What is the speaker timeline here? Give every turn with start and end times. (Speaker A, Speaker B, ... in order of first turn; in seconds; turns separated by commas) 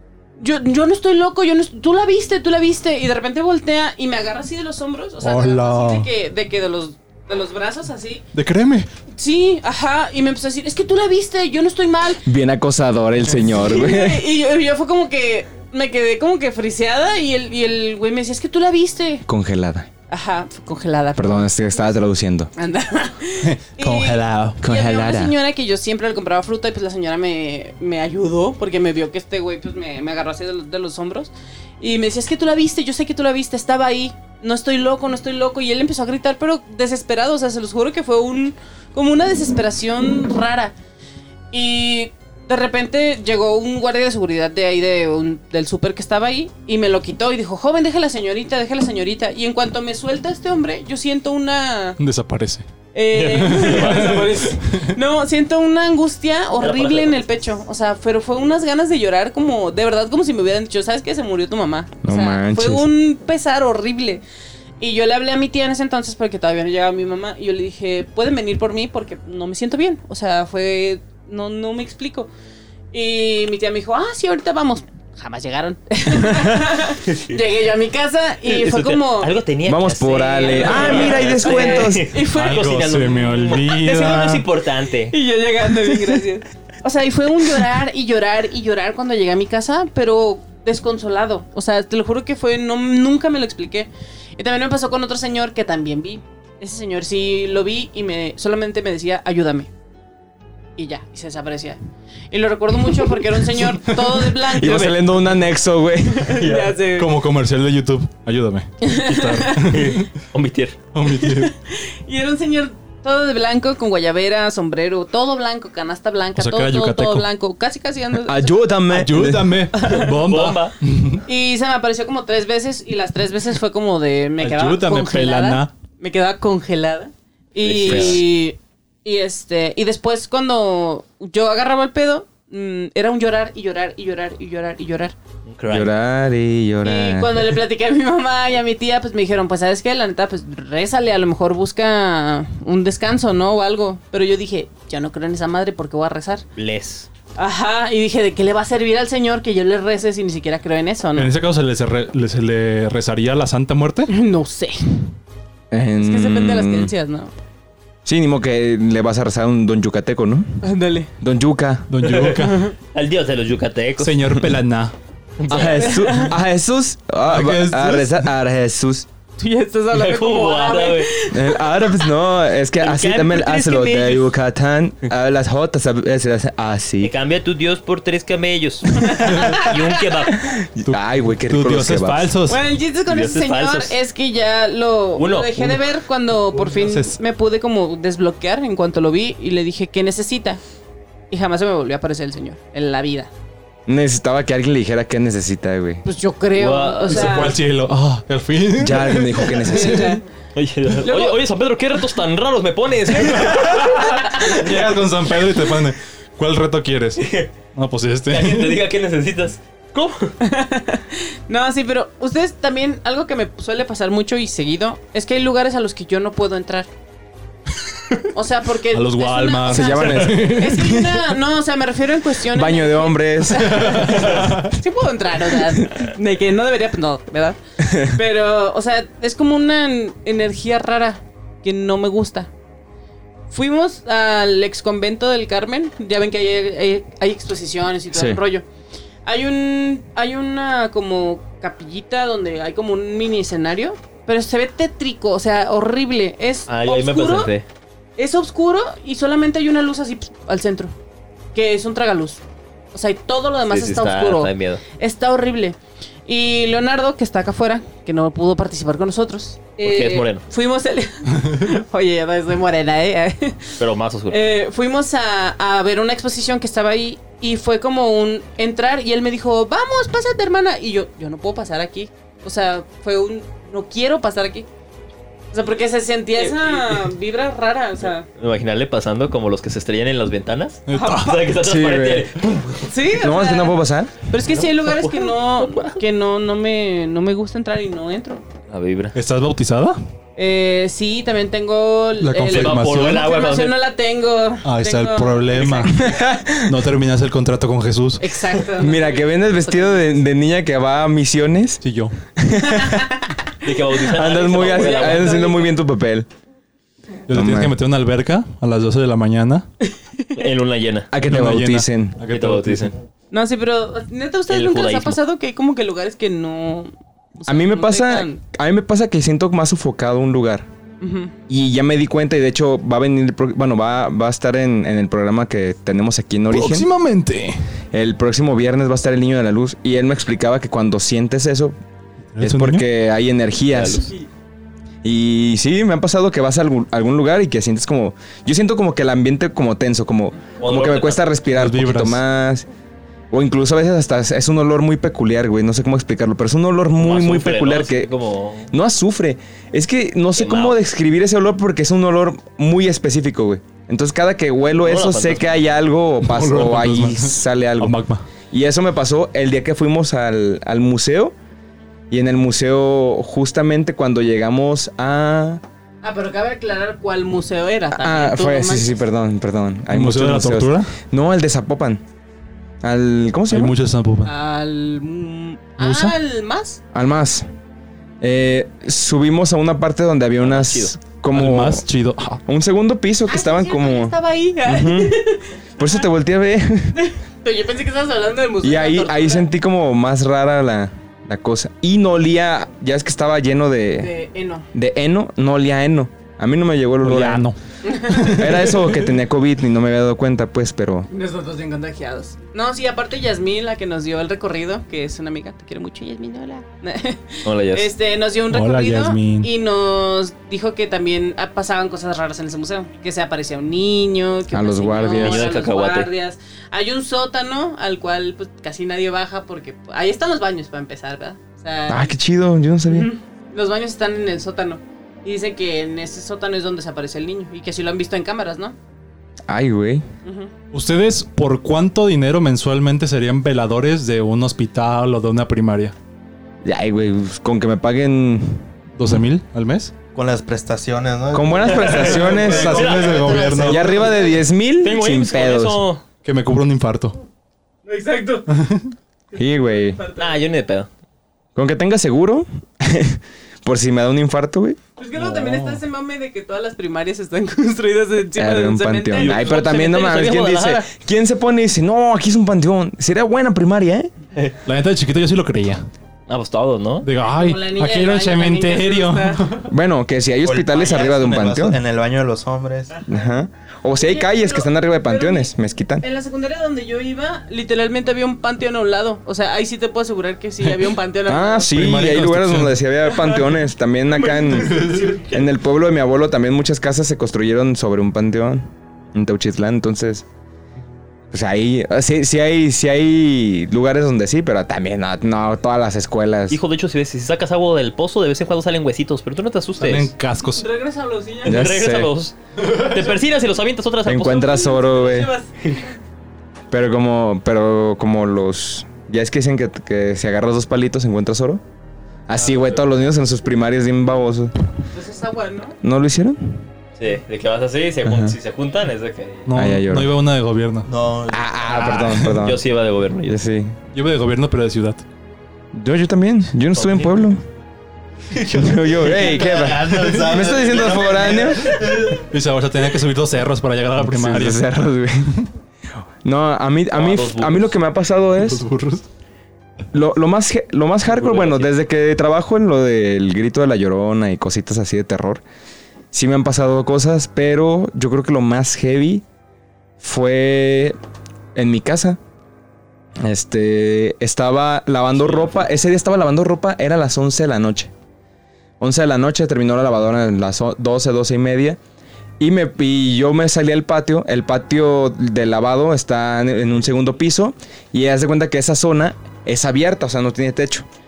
Speaker A: 0.4-8.2, Speaker B: 5.2-6.1, Speaker B: 8.3-8.9, Speaker A: 9.2-12.2, Speaker C: 12.3-14.2, Speaker A: 13.6-19.2, Speaker C: 19.3-19.9, Speaker A: 20.1-21.5, Speaker C: 21.2-22.5, Speaker A: 22.6-40.7, Speaker B: 23.4-24.6, Speaker C: 24.6-25.3, Speaker A: 41.5-52.0, Speaker B: 52.0-52.7, Speaker A: 52.9-64.2, Speaker D: 53.1-54.5, Speaker B: 53.3-54.9, Speaker D: 56.6-57.4, Speaker C: 62.0-62.9, Speaker A: 64.8-72.3, Speaker A: 72.9-79.3, Speaker D: 77.0-77.4, Speaker D: 78.4-85.2, Speaker C: 79.7-82.1, Speaker A: 80.0-82.7, Speaker B: 82.3-84.5, Speaker A: 85.1-99.7, Speaker A: 100.8-101.8, Speaker A: 102.3-105.1, Speaker C: 104.4-106.4, Speaker A: 106.1-107.1, Speaker D: 106.4-106.7, Speaker B: 107.0-110.1, Speaker A: 108.8-109.6, Speaker D: 109.4-110.8, Speaker B: 110.9-111.5, Speaker A: 111.0-118.6, Speaker B: 116.4-117.3, Speaker C: 118.3-119.6, Speaker B: 118.9-121.2, Speaker A: 119.7-120.2, Speaker D: 120.0-120.8, Speaker A: 121.3-135.2, Speaker B: 124.4-125.7, Speaker D: 127.6-128.2, Speaker C: 127.9-128.2, Speaker D: 135.5-135.9, Speaker C: 135.7-137.3, Speaker A: 136.8-146.4, Speaker D: 146.6-147.1, Speaker A: 147.4-151.3, Speaker B: 151.2-154.1, Speaker A: 154.1-155.1, Speaker C: 155.7-156.9, Speaker A: 155.9-157.3, Speaker C: 158.1-160.6, Speaker A: 160.6-161.1, Speaker C: 161.2-161.9, Speaker B: 161.9-162.7, Speaker D: 162.0-164.1, Speaker A: 162.4-162.7, Speaker B: 164.0-164.9, Speaker D: 165.4-166.1, Speaker A: 165.5-166.3, Speaker C: 165.5-169.1, Speaker B: 167.2-168.3, Speaker A: 169.4-172.1, Speaker D: 169.9-171.1, Speaker C: 171.3-177.1, Speaker D: 172.8-174.2, Speaker D: 177.0-180.5, Speaker A: 178.9-180.0, Speaker C: 180.5-182.3, Speaker B: 180.9-182.7, Speaker A: 182.5-190.6, Speaker D: 183.1-183.9, Speaker D: 185.2-185.8, Speaker B: 186.5-187.2, Speaker A: 191.3-193.3, Speaker C: 193.9-196.0, Speaker A: 196.0-197.6, Speaker D: 196.6-197.5, Speaker B: 197.1-200.1, Speaker C: 198.8-200.2, Speaker A: 199.6-200.2, Speaker D: 200.6-204.2, Speaker A: 201.0-201.4, Speaker B: 203.3-208.8, Speaker A: 204.0-204.6, Speaker D: 207.2-207.5, Speaker D: 208.3-210.3, Speaker A: 210.4-216.9, Speaker A: 218.3-227.6, Speaker B: 218.9-220.9, Speaker C: 219.7-221.2, Speaker C: 222.5-223.9, Speaker B: 223.6-224.7, Speaker A: 228.1-232.5, Speaker A: 233.5-238.7, Speaker C: 238.1-238.4, Speaker A: 239.2-247.5, Speaker D: 246.7-247.7, Speaker A: 248.2-250.9, Speaker A: 251.5-252.4, Speaker A: 252.9-263.8, Speaker D: 253.7-254.8, Speaker D: 259.8-260.4, Speaker D: 263.8-264.4, Speaker A: 264.3-274.7, Speaker A: 275.5-278.3, Speaker D: 276.4-276.8, Speaker D: 278.4-282.9, Speaker B: 280.9-281.5, Speaker A: 280.9-281.4, Speaker C: 281.6-282.3, Speaker A: 282.9-283.8, Speaker C: 283.1-284.2, Speaker A: 284.3-288.4, Speaker D: 284.5-286.0, Speaker D: 288.7-289.1, Speaker B: 289.1-290.0, Speaker A: 290.4-295.7, Speaker B: 292.2-293.3, Speaker D: 292.5-293.8, Speaker B: 294.6-296.0, Speaker D: 295.6-295.9, Speaker C: 296.0-296.7, Speaker B: 296.6-298.3, Speaker A: 298.2-300.1, Speaker C: 298.8-301.8, Speaker B: 301.8-302.1, Speaker C: 302.4-303.1, Speaker A: 302.7-303.1, Speaker D: 303.6-305.4, Speaker C: 304.1-306.3, Speaker A: 304.3-305.7, Speaker B: 307.3-309.7, Speaker C: 307.3-307.8, Speaker D: 310.4-311.1, Speaker C: 311.1-312.2, Speaker B: 311.2-312.9, Speaker D: 312.3-313.0, Speaker A: 313.3-318.4, Speaker D: 314.5-315.2, Speaker C: 317.5-320.7, Speaker A: 321.0-321.3, Speaker C: 321.5-326.9, Speaker B: 326.5-327.6, Speaker C: 327.9-331.8, Speaker B: 332.4-332.9, Speaker C: 332.4-334.1, Speaker D: 333.7-334.1, Speaker C: 335.0-342.7, Speaker D: 340.6-341.3, Speaker B: 341.5-342.2, Speaker C: 343.3-348.1, Speaker D: 347.0-348.7, Speaker C: 348.7-358.0, Speaker D: 350.4-350.8, Speaker D: 354.8-355.6, Speaker B: 356.2-358.2, Speaker C: 358.5-361.4, Speaker C: 362.1-365.6, Speaker A: 366.0-368.9, Speaker C: 367.9-372.0, Speaker B: 369.9-370.9, Speaker C: 372.8-373.8, Speaker B: 373.5-374.3, Speaker A: 374.2-376.8, Speaker B: 375.8-376.2, Speaker C: 376.9-377.5, Speaker C: 378.2-381.8, Speaker D: 380.4-381.0, Speaker B: 381.3-382.4, Speaker C: 382.5-385.2, Speaker A: 383.3-385.5, Speaker C: 385.8-387.0, Speaker A: 387.0-389.5, Speaker C: 388.6-394.1, Speaker A: 394.0-394.7, Speaker C: 394.7-397.5, Speaker B: 397.0-397.6, Speaker A: 397.8-398.4, Speaker B: 398.1-399.1, Speaker C: 398.2-401.1, Speaker A: 401.1-422.1, Speaker D: 407.4-407.9, Speaker B: 408.5-409.5, Speaker C: 414.5-415.5, Speaker D: 415.1-416.1, Speaker C: 421.9-423.1, Speaker A: 422.9-428.8, Speaker C: 429.5-430.1, Speaker A: 430.2-430.5, Speaker B: 430.7-435.9, Speaker C: 436.6-438.7, Speaker B: 439.0-439.9, Speaker E: 440.1-443.7, Speaker C: 441.3-442.9, Speaker D: 441.7-444.0, Speaker B: 442.1-443.9, Speaker A: 443.3-444.4, Speaker C: 443.6-445.8, Speaker D: 444.8-446.0, Speaker B: 446.2-447.2, Speaker A: 447.9-448.5, Speaker B: 448.6-448.9, Speaker A: 449.3-450.4, Speaker C: 449.4-450.0, Speaker D: 450.2-450.9, Speaker C: 451.6-454.8, Speaker A: 455.0-459.6, Speaker B: 455.2-455.8, Speaker C: 458.4-464.1, Speaker D: 459.1-460.9, Speaker B: 464.6-465.8, Speaker D: 466.3-467.1, Speaker B: 467.0-469.7, Speaker A: 467.2-469.6, Speaker C: 469.7-471.8, Speaker E: 470.4-473.0, Speaker C: 473.1-476.1, Speaker A: 474.0-481.8, Speaker C: 481.3-490.2, Speaker B: 481.7-482.8, Speaker B: 484.3-485.2, Speaker C: 491.3-496.6, Speaker D: 496.5-500.1, Speaker B: 499.8-500.7, Speaker A: 500.5-501.7, Speaker D: 501.4-505.0, Speaker C: 501.4-502.1, Speaker C: 504.1-505.3, Speaker A: 504.3-505.9, Speaker C: 506.7-511.6, Speaker C: 512.3-514.5, Speaker A: 514.9-515.8, Speaker C: 515.8-516.4, Speaker D: 517.0-519.5, Speaker C: 518.0-518.4, Speaker B: 519.5-520.9, Speaker C: 519.5-520.1, Speaker E: 520.9-522.0, Speaker C: 521.3-522.6, Speaker B: 521.7-522.3, Speaker D: 522.3-523.4, Speaker C: 523.3-523.8, Speaker B: 523.9-525.0, Speaker C: 525.7-527.4, Speaker D: 526.8-527.2, Speaker E: 528.3-532.2, Speaker C: 528.5-531.7, Speaker B: 532.1-534.6, Speaker C: 534.0-535.3, Speaker C: 536.2-538.6, Speaker D: 536.9-537.8, Speaker B: 538.4-539.0, Speaker C: 539.9-545.4, Speaker D: 541.1-541.7, Speaker C: 546.1-549.2, Speaker C: 550.0-551.0, Speaker C: 551.5-552.2, Speaker C: 553.2-557.9, Speaker C: 558.8-561.8, Speaker C: 562.4-570.9